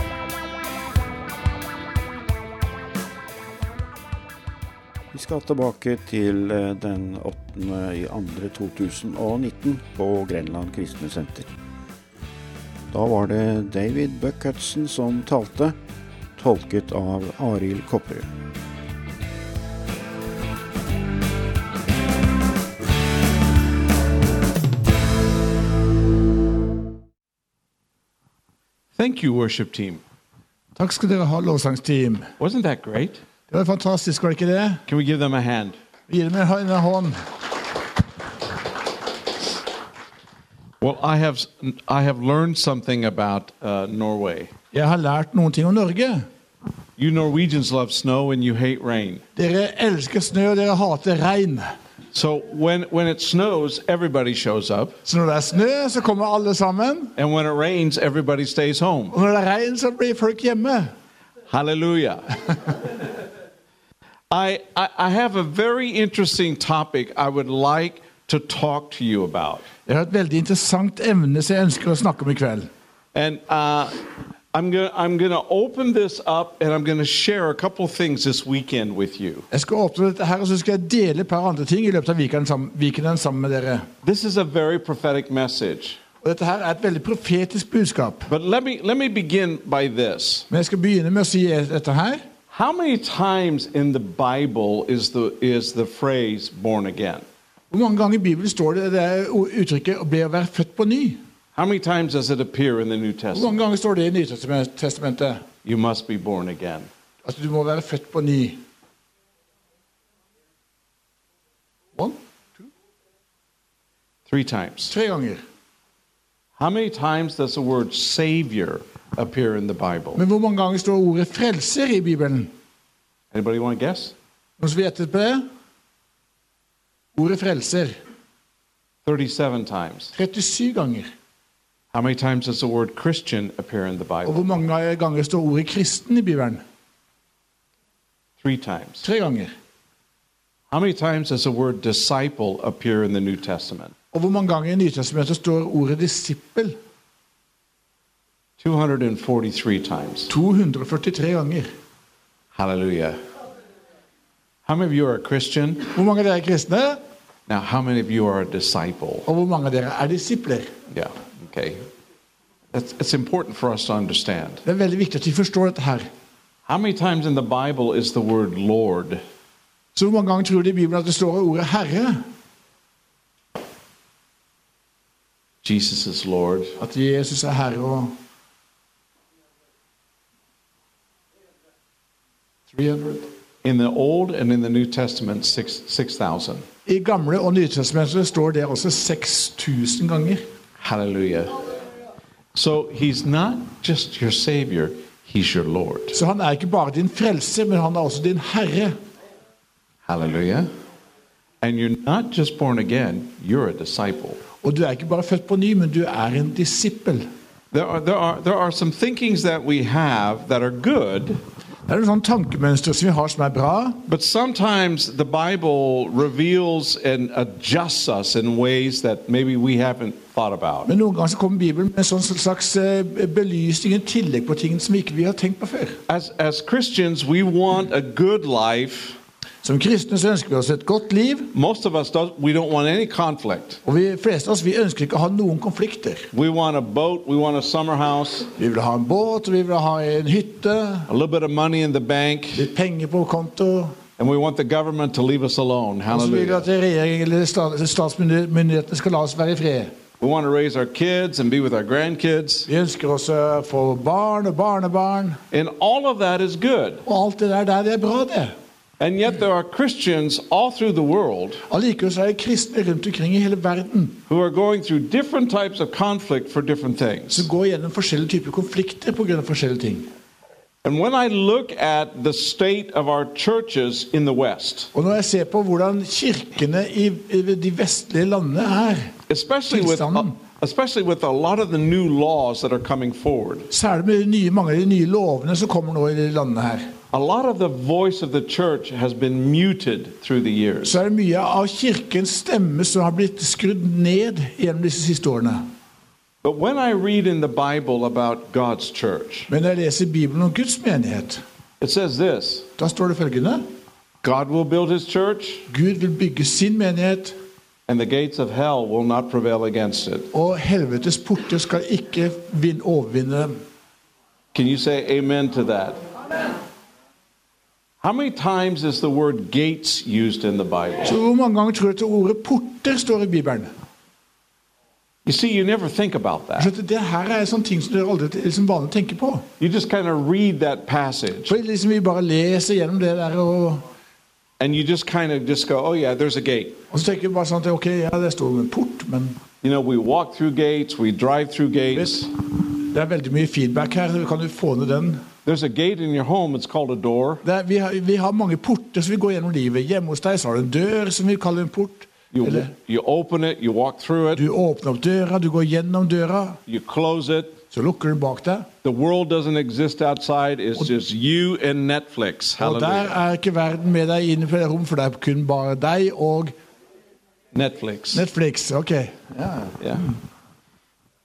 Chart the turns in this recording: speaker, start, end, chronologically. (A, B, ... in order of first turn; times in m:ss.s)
0:05.1-0:11.5 A
0:12.9-0:15.8 A
0:16.4-0:18.3 A
0:29.0-0:30.0 B
0:30.8-0:32.3 C
0:32.4-0:33.2 B
0:33.5-0:34.8 C
0:34.9-0:35.8 B
0:36.1-0:37.2 C
0:40.8-0:44.5 B
0:44.7-0:46.2 C
0:47.0-0:49.2 B
0:49.4-0:51.7 C
0:52.1-0:55.0 B
0:55.1-0:57.1 C
0:57.2-0:59.1 B
0:59.1-1:00.9 C
1:01.5-1:02.4 B
1:04.3-1:09.7 B
1:09.9-1:12.7 C
1:13.1-1:14.0 B
1:14.5-1:19.5 B
1:19.5-1:23.9 C
1:24.0-1:26.0 B
1:26.2-1:28.3 C
1:28.3-1:30.5 B
1:30.5-1:32.2 C
1:32.5-1:37.2 B
1:37.7-1:41.2 C
1:41.6-1:43.6 B
1:43.3-1:45.4 C
1:45.6-1:46.9 B
1:47.2-1:48.6 C
1:54.3-1:54.9 B
1:54.9-1:55.4 C
1:56.6-2:00.2 B
2:00.2-2:02.5 C
2:03.3-2:04.2 B
2:04.6-2:05.5 C
2:07.2-2:08.0 C
2:09.0-2:10.1 B
2:10.2-2:11.1 C
2:11.9-2:14.6 B
2:14.2-2:16.6 C
2:18.4-2:19.0 B
2:19.0-2:19.5 C
2:20.7-2:23.9 B
2:24.1-2:26.8 C
2:28.6-2:30.3 B
2:30.3-2:31.7 C
2:32.5-2:33.2 B
2:34.7-2:35.9 B
2:35.9-2:37.0 C
2:37.5-2:39.3 B
2:39.3-2:40.7 C
2:40.9-2:41.8 B
2:42.7-2:44.6 B
2:44.6-2:46.1 C
2:46.7-2:49.2 B
2:50.0-2:52.2 C
2:55.6-2:56.8 B
2:56.8-2:58.2 C
3:02.7-3:03.3 C
3:03.6-3:06.7 B
3:06.9-3:10.4 C
3:10.8-3:11.5 B
3:12.5-3:16.2 B
3:16.1-3:19.0 C
3:20.1-3:20.7 B
3:21.6-3:24.4 B
3:24.6-3:27.3 C
3:27.7-3:31.4 B
3:31.9-3:34.0 C
3:34.1-3:40.9 B
3:40.9-3:46.0 C
3:46.1-3:49.2 B
3:49.6-3:51.5 C
3:51.5-3:53.8 B
3:53.8-3:56.3 C
3:56.3-3:58.5 B
3:58.6-4:01.1 C
4:01.1-4:02.7 B
4:02.6-4:04.0 C
4:04.2-4:06.7 B
4:06.1-4:09.9 C
4:10.2-4:12.7 B
4:12.7-4:15.4 C
4:15.5-4:17.0 B
4:17.1-4:18.6 C
4:19.0-4:21.6 B
4:21.7-4:24.2 C
4:24.3-4:27.5 B
4:27.3-4:30.1 C
4:30.8-4:34.9 B
4:34.9-4:39.1 C
4:39.3-4:43.7 B
4:39.7-4:40.4 C
4:43.7-4:46.9 C
4:47.1-4:51.0 B
4:50.8-4:55.6 C
4:56.4-4:59.5 B
4:59.5-5:01.4 C
5:01.8-5:02.7 B
5:02.8-5:03.6 C
5:04.2-5:05.7 B
5:05.7-5:07.4 C
5:07.9-5:10.3 B
5:10.3-5:13.6 C
5:14.5-5:16.0 B
5:18.0-5:21.2 B
5:21.0-5:23.7 C
5:25.2-5:26.7 B
5:26.6-5:29.5 C
5:29.6-5:31.6 B
5:31.5-5:33.8 C
5:34.6-5:36.8 B
5:36.9-5:39.4 C
5:39.6-5:42.3 B
5:41.9-5:45.2 C
5:45.4-5:47.4 B
5:47.4-5:52.7 C
5:52.3-5:54.4 B
5:54.4-5:56.6 C
5:56.7-5:57.6 B
5:57.7-5:58.7 C
5:58.8-6:03.2 B
6:02.6-6:06.5 C
6:07.5-6:08.2 B
6:08.1-6:10.2 C
6:09.8-6:10.1 B